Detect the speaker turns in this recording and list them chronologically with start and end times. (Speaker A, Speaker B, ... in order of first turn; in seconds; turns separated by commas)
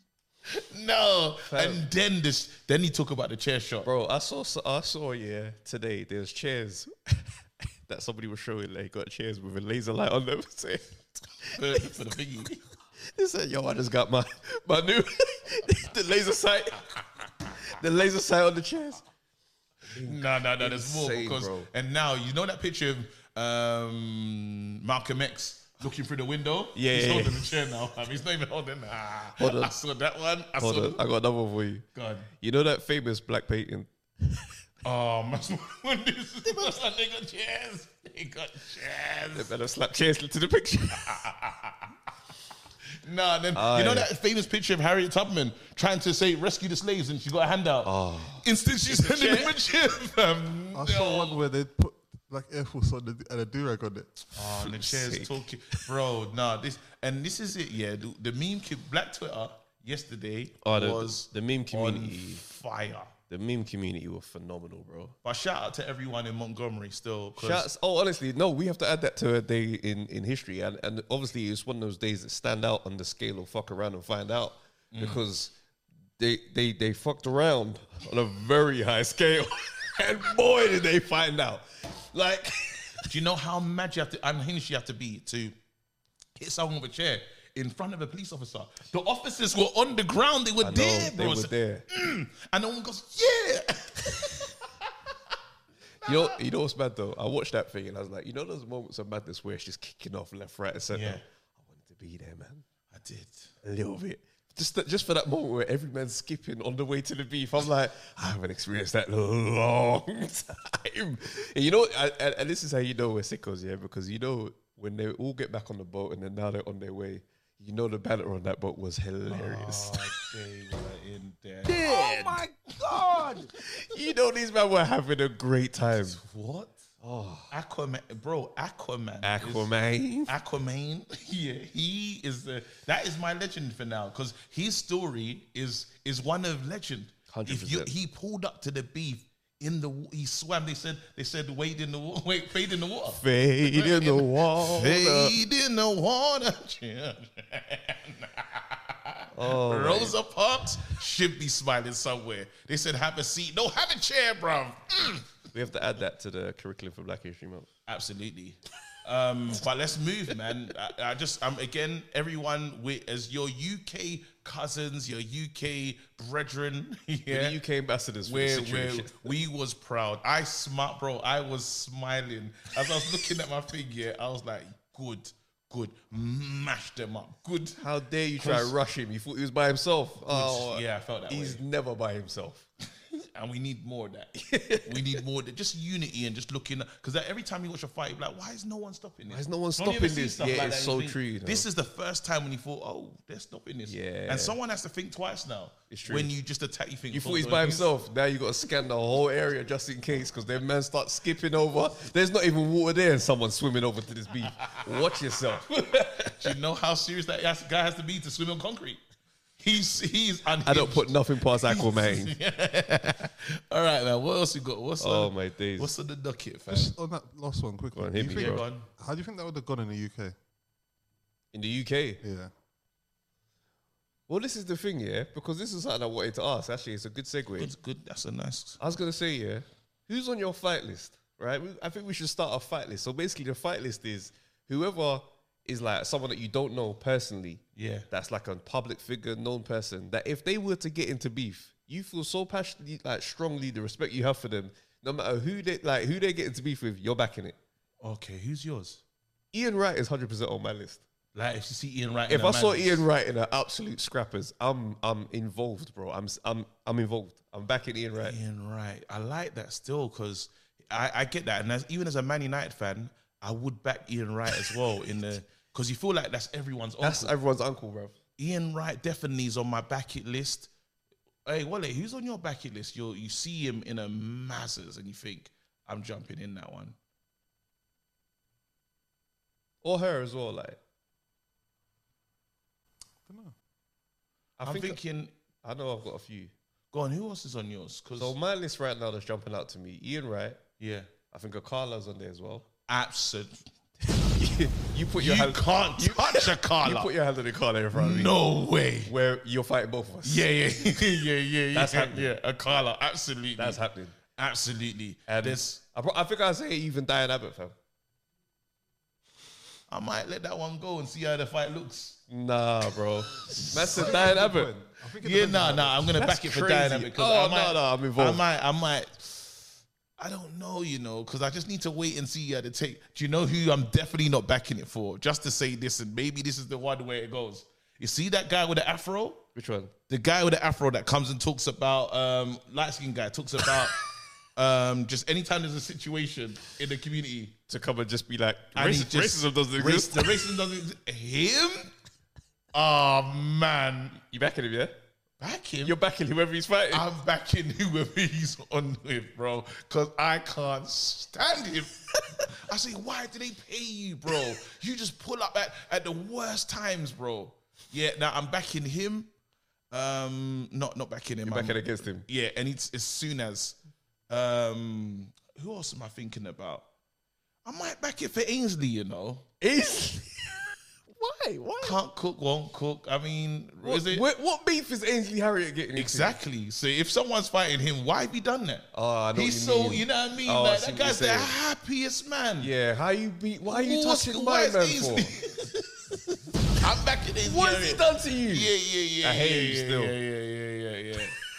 Speaker A: 0.5-3.9, Speaker B: 1.5-1.8, Speaker B: 3.8-11.9, Speaker A: 11.6-12.6, Speaker B: 13.1-19.0, Speaker B: 19.9-21.7, Speaker A: 20.0-31.0, Speaker B: 26.7-27.5, Speaker B: 29.4-29.7, Speaker B: 30.6-31.9, Speaker A: 31.9-32.3, Speaker B: 32.4-34.5, Speaker A: 34.8-39.5, Speaker B: 39.3-41.2, Speaker A: 40.9-41.9, Speaker A: 43.0-51.4, Speaker B: 43.5-44.1, Speaker B: 47.8-49.6, Speaker C: 50.7-54.1, Speaker A: 54.3-63.1, Speaker B: 54.4-55.8, Speaker B: 60.6-62.4, Speaker B: 63.3-65.1, Speaker A: 65.2-67.7, Speaker B: 67.4-75.5, Speaker A: 74.9-75.2, Speaker B: 76.2-83.1, Speaker A: 83.1-85.5, Speaker A: 86.4-94.7, Speaker B: 90.6-91.8, Speaker B: 96.0-102.6, Speaker A: 96.0-96.3, Speaker A: 100.9-101.2, Speaker A: 102.9-103.5, Speaker B: 103.6-120.1, Speaker A: 119.3-123.5, Speaker B: 121.7-126.2, Speaker A: 126.0-126.8, Speaker B: 127.0-127.5, Speaker A: 127.5-129.7, Speaker B: 129.2-130.3, Speaker A: 130.3-155.2, Speaker B: 137.3-137.9, Speaker B: 143.2-145.4, Speaker B: 149.3-150.2, Speaker B: 155.5-157.7, Speaker A: 157.9-167.6, Speaker B: 167.3-169.3, Speaker A: 168.2-177.8, Speaker B: 177.8-182.7, Speaker A: 178.4-178.7, Speaker A: 180.3-181.6, Speaker A: 183.2-184.3, Speaker B: 184.3-185.2, Speaker A: 184.8-197.9, Speaker B: 189.3-191.7, Speaker B: 193.9-194.6, Speaker B: 195.9-196.3, Speaker B: 197.1-206.6, Speaker A: 204.6-205.1, Speaker A: 206.2-209.0, Speaker A: 209.6-216.9, Speaker B: 210.6-212.3, Speaker B: 215.0-215.9, Speaker C: 216.7-220.3, Speaker B: 217.9-218.6, Speaker A: 218.2-218.9, Speaker B: 221.5-222.2, Speaker C: 222.2-222.5, Speaker B: 224.3-227.7, Speaker A: 227.6-228.8, Speaker B: 228.8-247.6, Speaker A: 237.8-238.1, Speaker A: 248.0-249.0, Speaker B: 249.5-251.0, Speaker A: 251.3-253.0, Speaker B: 252.3-258.4, Speaker A: 258.2-267.3, Speaker B: 267.0-268.1, Speaker A: 268.4-270.7, Speaker A: 271.4-276.9, Speaker B: 279.8-280.8, Speaker C: 283.2-283.5, Speaker B: 284.6-285.0, Speaker A: 284.6-285.3, Speaker B: 285.6-286.5, Speaker A: 286.9-288.3, Speaker B: 288.2-290.6, Speaker A: 290.8-291.1, Speaker B: 291.3-292.7, Speaker A: 292.9-293.7, Speaker B: 294.1-298.4, Speaker A: 295.2-297.1, Speaker A: 297.9-299.1, Speaker B: 299.0-300.4, Speaker A: 300.2-303.8, Speaker B: 301.7-302.3, Speaker B: 303.6-304.1, Speaker A: 304.4-305.8, Speaker B: 305.3-307.7, Speaker A: 309.9-312.2, Speaker B: 312.3-314.7, Speaker A: 313.5-314.1, Speaker C: 313.8-316.1, Speaker A: 315.2-319.4, Speaker B: 316.1-318.4, Speaker A: 320.2-329.4, Speaker B: 329.5-329.9, Speaker A: 330.1-334.0, Speaker A: 334.6-337.6, Speaker B: 337.7-340.4, Speaker A: 338.7-341.9, Speaker A: 342.7-344.1, Speaker B: 344.1-344.9, Speaker A: 345.4-345.9, Speaker B: 345.8-347.1, Speaker A: 346.9-359.3, Speaker B: 352.1-352.4, Speaker A: 359.9-363.8, Speaker B: 361.4-362.2, Speaker A: 364.3-366.9, Speaker A: 367.6-369.4, Speaker B: 369.6-372.0, Speaker A: 371.8-374.2, Speaker B: 373.8-376.4, Speaker A: 375.9-382.7, Speaker B: 378.9-381.6, Speaker B: 382.6-385.3, Speaker A: 383.6-386.2, Speaker A: 386.7-391.3, Speaker B: 387.4-390.1